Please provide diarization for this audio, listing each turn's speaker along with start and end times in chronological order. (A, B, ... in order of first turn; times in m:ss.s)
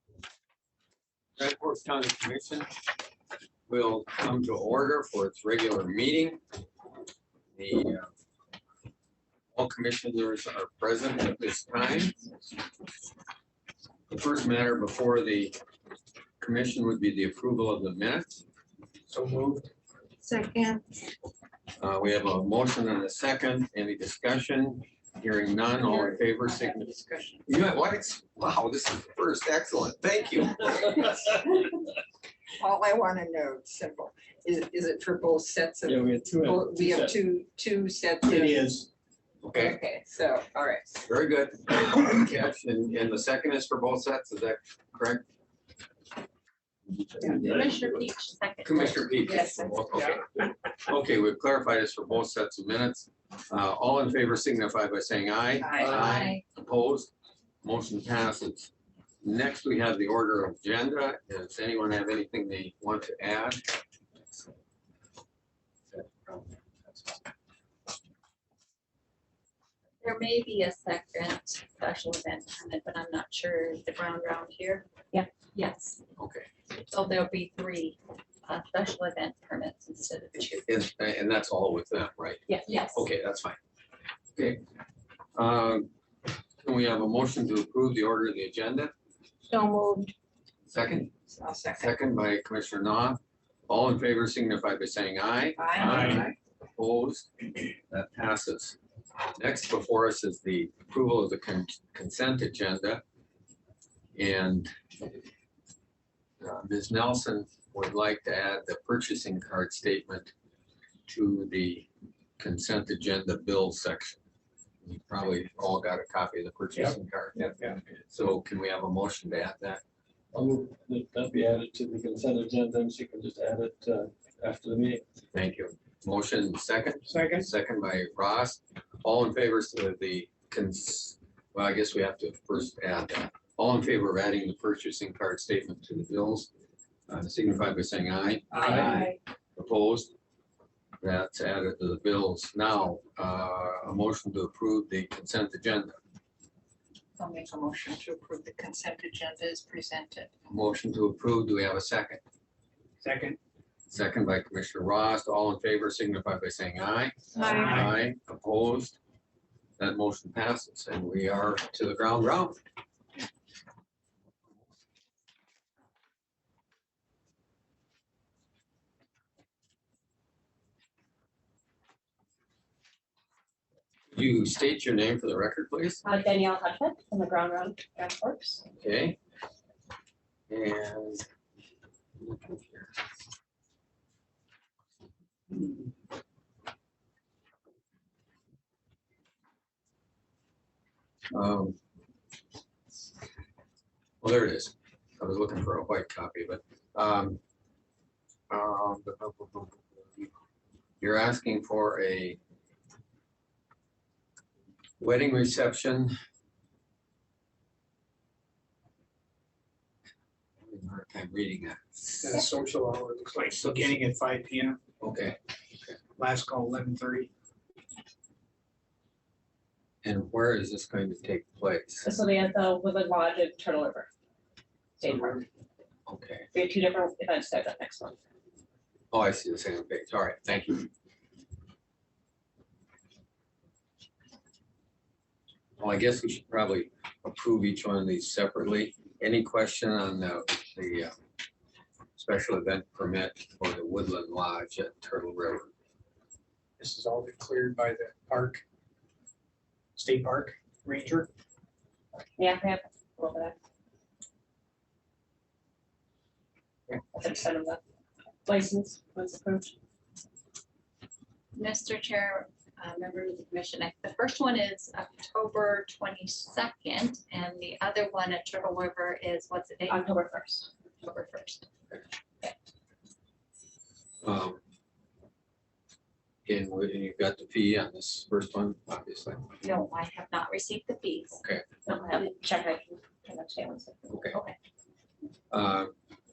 0:01.4-0:02.7 A
0:03.7-0:06.4 A
0:07.6-0:08.1 A
0:09.6-0:12.3 A
0:14.1-0:15.6 A
0:16.4-0:18.4 A
0:19.1-0:19.7 B
0:20.2-0:20.8 C
0:21.8-0:26.9 A
0:25.8-0:27.4 C
0:27.4-0:31.3 A
0:32.6-0:38.8 C
0:35.8-0:37.2 D
0:38.3-0:38.9 B
0:39.4-0:39.8 A
0:39.6-0:41.0 C
0:41.1-0:45.2 A
0:47.2-0:50.0 E
0:48.6-0:50.2 A
0:50.8-0:57.1 A
0:55.6-0:55.9 C
0:55.8-0:56.4 E
0:57.6-0:58.7 A
0:59.2-1:03.8 A
1:05.9-1:07.3 A
1:10.0-1:14.9 E
1:15.5-1:16.0 E
1:16.2-1:16.5 A
1:16.8-1:20.7 E
1:20.7-1:23.6 A
1:22.6-1:23.0 E
1:24.4-1:24.6 A
1:25.3-1:25.9 A
1:26.6-1:28.9 A
1:29.5-1:30.1 C
1:30.7-1:31.1 A
1:31.3-1:31.9 C
1:31.8-1:37.3 A
1:35.6-1:36.3 C
1:37.9-1:38.8 A
1:39.4-1:43.0 A
1:44.1-1:45.1 A
1:46.4-1:50.3 A
1:51.1-1:51.9 A
1:52.4-1:54.2 A
1:54.8-1:59.8 A
1:57.5-1:57.8 B
2:00.3-2:05.0 D
2:05.3-2:16.5 A
2:07.0-2:07.5 B
2:17.1-2:20.1 A
2:18.6-2:19.1 F
2:21.0-2:26.0 A
2:27.2-2:30.3 C
2:30.5-2:32.2 A
2:33.0-2:33.4 B
2:33.9-2:39.0 A
2:37.3-2:37.8 C
2:37.6-2:37.9 B
2:39.8-2:42.6 A
2:54.1-2:56.0 A
2:56.0-2:58.6 F
2:58.8-2:59.2 A
3:00.5-3:01.2 A
3:02.2-3:03.0 A
3:11.3-3:11.8 A
3:14.2-3:17.4 A
3:18.5-3:20.3 A
3:21.0-3:22.4 A
3:25.0-3:26.1 A
3:30.6-3:32.5 A
3:32.2-3:34.8 B
3:35.0-3:36.0 A
3:36.2-3:37.3 B
3:40.0-3:42.0 A
3:42.0-3:44.1 F
3:45.0-3:45.4 F
3:46.1-3:46.5 A
3:46.5-3:48.2 F
3:49.1-3:50.9 A
3:55.8-4:01.1 A
4:02.2-4:05.7 A
4:06.8-4:08.6 B
4:10.0-4:11.3 B
4:12.4-4:13.6 F
4:17.1-4:17.8 F
4:18.4-4:19.7 F
4:21.5-4:30.1 E
4:29.9-4:30.7 F
4:31.0-4:31.7 E
4:34.2-4:34.6 A
4:36.4-4:39.4 A
4:39.6-4:42.2 E
4:41.9-4:44.3 F
4:44.1-4:44.4 A
4:45.5-4:45.9 A